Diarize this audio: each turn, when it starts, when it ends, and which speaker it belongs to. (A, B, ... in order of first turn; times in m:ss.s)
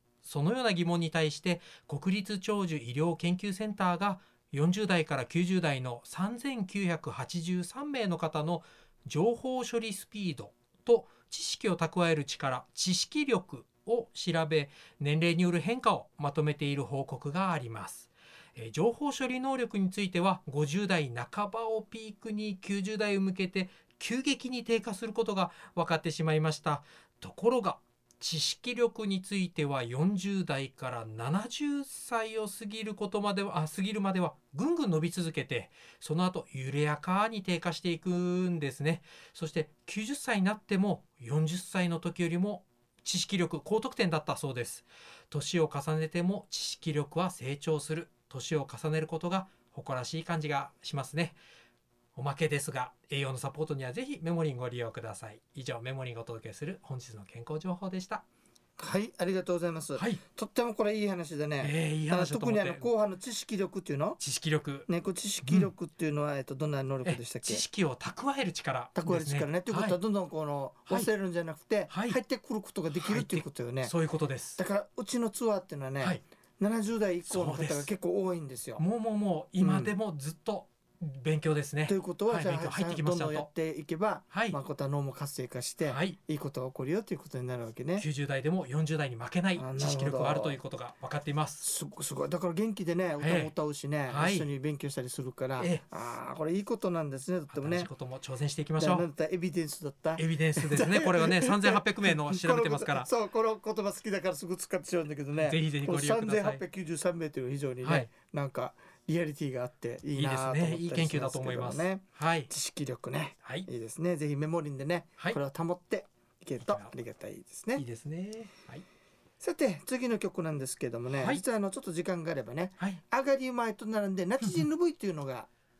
0:00.2-0:51.4 A
0:52.2-0:58.2 A
0:58.8-1:04.2 B
1:00.0-1:00.2 A
1:01.6-1:02.9 A
1:04.2-1:04.9 A
1:04.9-1:07.6 B
1:05.4-1:05.7 A
1:07.0-1:10.0 A
1:09.0-1:13.9 B
1:11.9-1:12.2 A
1:12.9-1:14.6 A
1:14.6-1:18.8 B
1:17.3-1:17.9 A
1:18.8-1:23.5 A
1:19.6-1:20.0 B
1:21.9-1:28.1 B
1:24.3-1:24.6 A
1:25.8-1:26.2 A
1:28.0-1:31.7 A
1:29.6-1:30.6 B
1:31.6-1:37.9 B
1:33.2-1:33.5 A
1:34.1-1:34.5 A
1:35.6-1:35.8 A
1:37.5-1:39.1 A
1:38.8-1:57.8 B
1:40.2-1:43.1 A
1:45.4-1:46.6 A
1:47.8-1:48.1 A
1:50.2-1:52.5 A
1:53.4-1:53.7 A
1:56.7-1:57.0 A
1:57.8-1:58.8 A
1:59.4-2:05.5 B
2:01.1-2:01.4 A
2:04.4-2:04.7 A